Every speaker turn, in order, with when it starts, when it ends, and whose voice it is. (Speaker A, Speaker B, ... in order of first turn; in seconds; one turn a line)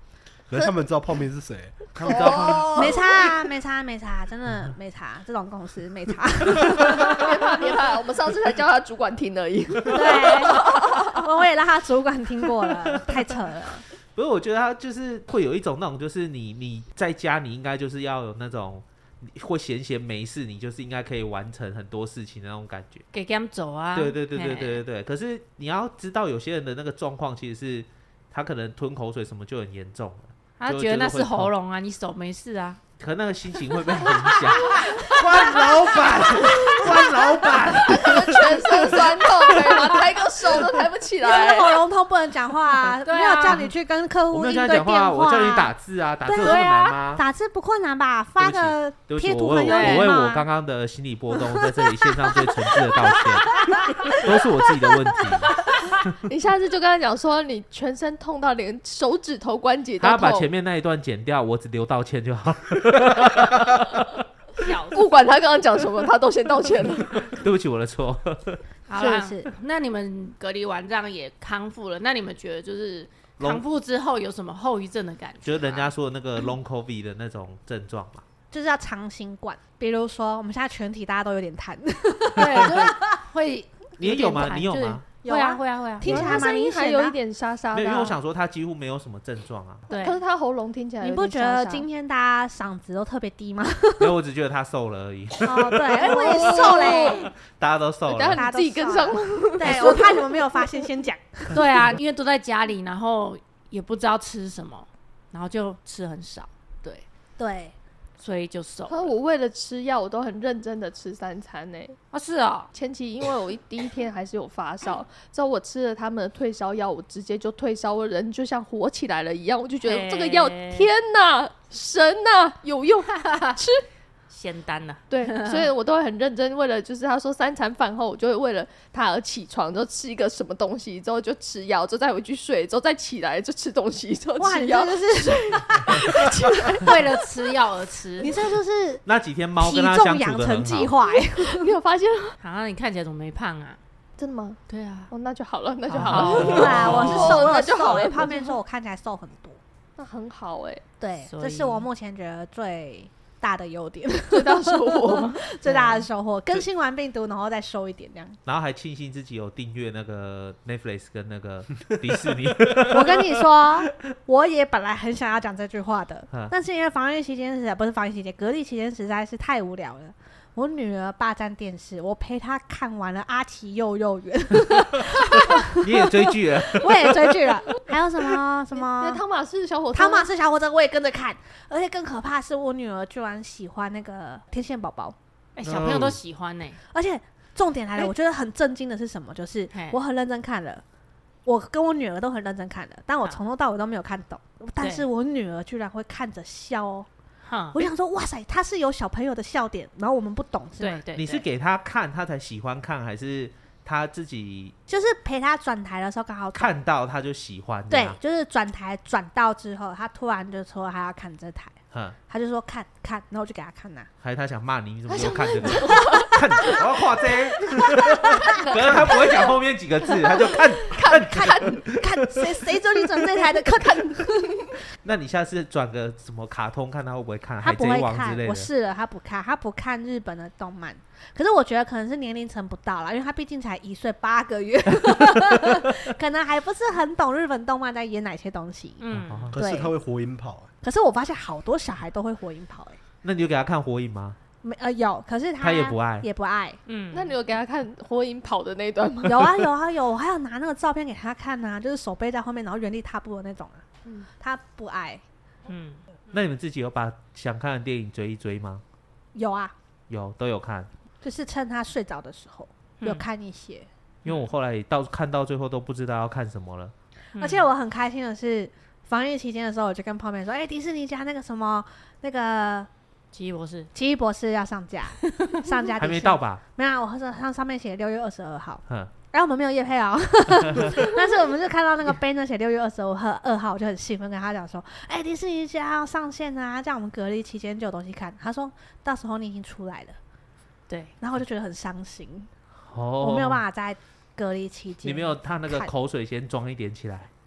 Speaker A: 0.5-2.8
Speaker B: 2.0-3.0
Speaker C: 2.0-3.2
Speaker D: 2.7-7.6
Speaker C: 6.8-11.2
Speaker D: 9.9-13.8
Speaker B: 12.9-13.2
Speaker B: 14.1-23.0
Speaker E: 23.1-24.8
Speaker B: 23.9-31.5
Speaker E: 30.6-32.8
Speaker B: 33.0-39.9
Speaker D: 34.9-35.6
Speaker D: 36.3-37.1
Speaker C: 37.8-41.8
Speaker D: 41.2-45.7
Speaker E: 43.0-43.7
Speaker B: 44.3-47.2
Speaker D: 46.2-50.5
Speaker B: 48.4-56.1
Speaker E: 49.6-50.1
Speaker D: 51.3-55.2
Speaker C: 56.3-60.5
Speaker B: 60.0-64.2
Speaker E: 64.6-65.1
Speaker C: 64.9-67.3
Speaker B: 67.2-68.6
Speaker E: 68.9-75.9
Speaker D: 68.9-69.5
Speaker B: 75.4-78.2
Speaker D: 78.5-83.1
Speaker E: 82.3-86.3
Speaker B: 84.0-85.0
Speaker D: 85.2-87.2
Speaker C: 86.0-88.2
Speaker B: 87.7-89.8
Speaker E: 89.9-90.2
Speaker C: 89.9-91.8
Speaker D: 91.0-94.1
Speaker B: 94.0-98.5
Speaker D: 95.4-97.3
Speaker C: 96.0-97.3
Speaker C: 98.1-100.8
Speaker D: 98.3-101.6
Speaker E: 101.5-107.0
Speaker D: 107.4-107.7
Speaker E: 108.2-109.1
Speaker C: 108.9-112.0
Speaker E: 112.1-112.7
Speaker C: 112.7-123.8
Speaker E: 119.8-120.9
Speaker E: 123.2-123.5
Speaker E: 124.3-125.7
Speaker C: 125.1-137.0
Speaker D: 134.4-136.8
Speaker E: 136.8-138.3
Speaker D: 138.2-139.0
Speaker B: 139.1-140.9
Speaker D: 139.6-141.7
Speaker C: 141.1-142.4
Speaker E: 142.4-143.8
Speaker C: 144.2-148.6
Speaker E: 144.7-145.1
Speaker E: 145.9-147.4
Speaker D: 146.1-149.6
Speaker B: 146.1-147.2
Speaker C: 150.0-150.8
Speaker D: 151.0-158.4
Speaker E: 151.2-151.8
Speaker C: 154.3-155.4
Speaker E: 155.6-156.1
Speaker B: 158.4-163.8
Speaker D: 162.8-179.2
Speaker B: 175.0-177.6
Speaker C: 178.7-180.3
Speaker D: 179.9-185.2
Speaker E: 185.6-186.8
Speaker B: 185.6-186.2
Speaker D: 186.9-190.8
Speaker E: 189.7-190.0
Speaker D: 191.4-197.1
Speaker E: 194.8-195.1
Speaker E: 197.4-197.8
Speaker D: 197.7-201.0
Speaker E: 200.8-201.4
Speaker B: 201.1-204.7
Speaker D: 204.9-206.7
Speaker B: 206.5-208.2
Speaker D: 207.9-211.8
Speaker B: 211.9-212.2
Speaker D: 212.3-214.1
Speaker B: 214.2-222.6
Speaker C: 215.1-216.8
Speaker D: 215.7-216.7
Speaker D: 217.8-219.3
Speaker C: 218.4-219.5
Speaker C: 220.2-221.8
Speaker D: 221.0-224.7
Speaker C: 223.4-224.8
Speaker B: 225.0-228.7
Speaker D: 227.6-239.0
Speaker B: 235.3-235.9
Speaker E: 239.0-239.5
Speaker B: 239.1-239.6
Speaker A: 239.5-240.7
Speaker D: 239.5-239.9
Speaker D: 240.8-243.0
Speaker B: 243.2-244.4
Speaker D: 244.6-246.8
Speaker B: 245.6-246.3
Speaker E: 246.9-247.3
Speaker C: 247.1-249.7
Speaker D: 249.2-253.8
Speaker D: 254.4-255.2
Speaker E: 255.7-256.0
Speaker B: 256.3-258.8
Speaker D: 259.3-259.7
Speaker B: 260.1-260.9
Speaker D: 261.2-263.9
Speaker B: 264.2-266.9
Speaker E: 267.4-267.7
Speaker D: 267.4-272.9
Speaker E: 273.3-273.9
Speaker D: 273.9-290.2
Speaker B: 276.0-276.6
Speaker B: 280.7-281.0
Speaker D: 291.2-292.5
Speaker B: 292.9-293.6
Speaker D: 293.2-295.9
Speaker B: 295.0-297.3